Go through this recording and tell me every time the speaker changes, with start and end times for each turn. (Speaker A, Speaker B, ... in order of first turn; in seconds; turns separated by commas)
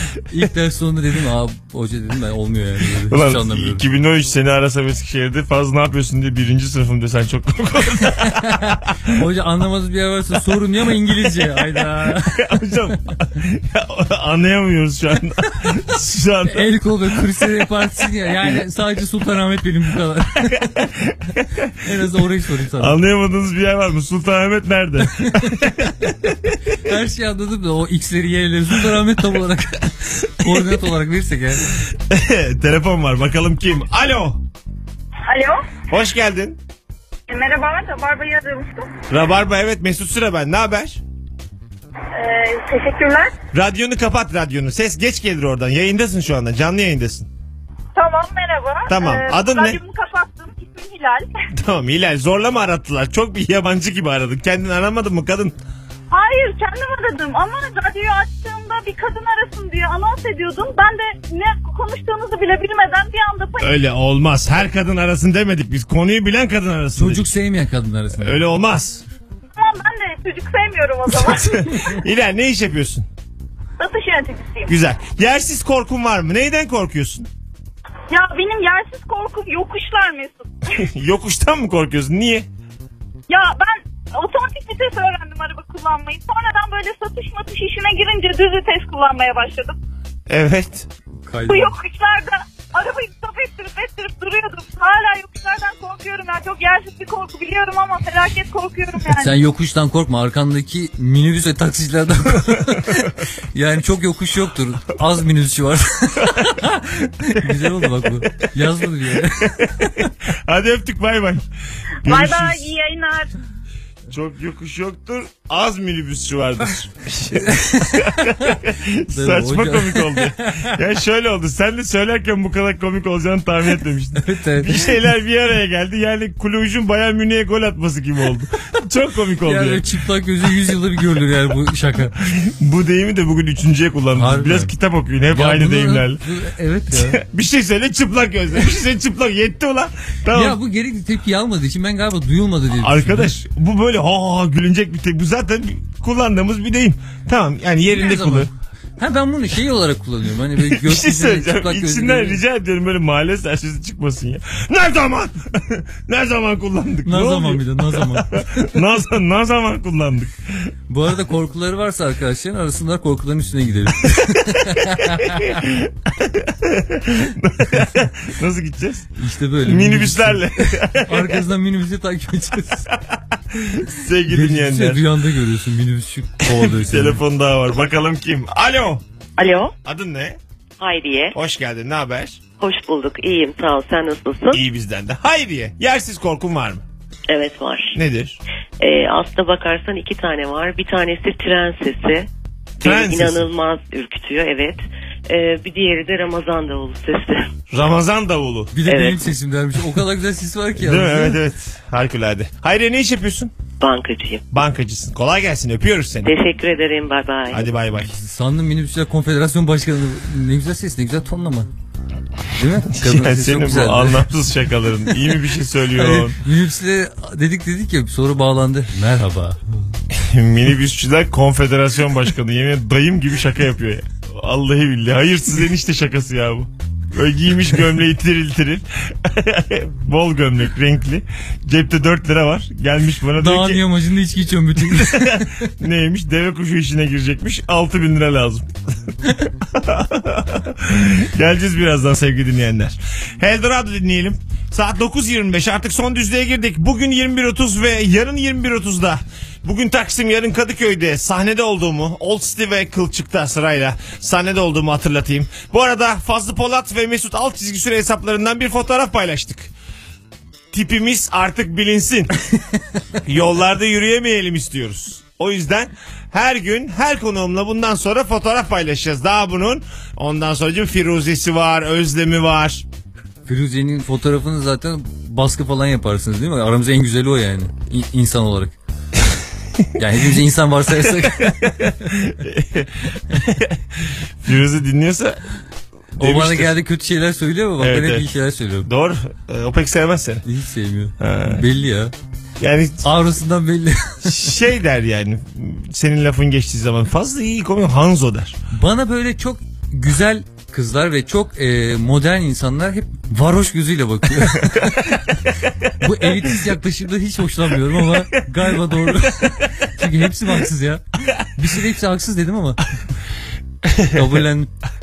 Speaker A: 0.3-3.8, Speaker B: 3.1-9.1, Speaker A: 8.2-13.1, Speaker B: 12.3-16.7, Speaker A: 16.5-20.8, Speaker B: 17.3-17.6, Speaker B: 20.6-21.8, Speaker A: 21.8-23.0, Speaker B: 22.8-26.6, Speaker A: 25.0-31.7, Speaker B: 31.8-34.4, Speaker C: 35.3-35.6, Speaker B: 35.9-36.6, Speaker C: 37.3-38.9, Speaker B: 39.1-41.0, Speaker C: 42.1-43.3, Speaker B: 43.5-47.3, Speaker C: 48.0-51.3, Speaker B: 48.9-49.8, Speaker B: 51.6-55.5, Speaker C: 56.1-63.7, Speaker B: 63.6-67.3, Speaker A: 67.0-68.4, Speaker B: 68.2-69.0, Speaker C: 69.6-72.0, Speaker B: 71.1-73.1, Speaker C: 73.8-74.7, Speaker B: 74.7-77.3, Speaker C: 78.1-80.7, Speaker B: 80.7-82.5, Speaker C: 83.3-89.8, Speaker B: 90.3-90.9, Speaker A: 91.3-91.7, Speaker C: 91.5-99.3, Speaker A: 99.1-109.6, Speaker B: 109.5-111.4, Speaker B: 112.0-112.7, Speaker C: 112.0-113.3, Speaker B: 114.1-129.8, Speaker A: 117.3-118.6, Speaker A: 119.1-120.7, Speaker A: 124.2-125.0, Speaker A: 129.4-132.2, Speaker B: 132.2-136.2, Speaker A: 134.1-134.7, Speaker A: 135.3-137.2, Speaker B: 137.0-140.6, Speaker A: 140.3-143.3, Speaker B: 142.7-148.5, Speaker A: 147.9-152.4, Speaker B: 150.6-160.3, Speaker A: 157.0-158.5, Speaker A: 160.9-165.7, Speaker B: 165.6-169.1, Speaker A: 169.2-172.9, Speaker B: 169.6-171.4, Speaker B: 173.1-175.0, Speaker A: 174.3-177.2, Speaker B: 176.5-179.0, Speaker B: 179.8-180.4, Speaker D: 180.8-181.3, Speaker B: 181.3-182.4, Speaker D: 182.6-184.6, Speaker B: 184.5-186.8, Speaker D: 187.3-188.0, Speaker B: 187.9-188.4, Speaker D: 188.8-192.3, Speaker B: 192.8-193.5, Speaker D: 192.8-197.4, Speaker B: 197.7-198.7, Speaker A: 198.7-201.4, Speaker D: 198.8-199.2, Speaker B: 200.8-203.5, Speaker D: 203.8-204.4, Speaker B: 204.5-206.3, Speaker D: 206.2-207.6, Speaker B: 207.5-208.2, Speaker A: 208.0-211.7, Speaker A: 212.5-214.3, Speaker B: 212.9-216.4, Speaker A: 216.0-219.6, Speaker B: 220.1-233.8, Speaker A: 233.3-235.7, Speaker B: 234.9-259.7, Speaker B: 260.7-262.3, Speaker B: 263.2-272.9, Speaker A: 273.5-278.7, Speaker A: 280.0-282.0, Speaker B: 281.4-285.4, Speaker B: 286.1-286.8, Speaker A: 286.2-288.9, Speaker B: 287.8-288.2, Speaker B: 288.8-290.4, Speaker A: 290.4-292.1, Speaker B: 291.2-291.7, Speaker B: 292.6-293.1, Speaker A: 293.0-294.5, Speaker B: 294.2-298.6, Speaker A: 298.7-312.8, Speaker B: 313.9-314.1, Speaker A: 314.1-314.7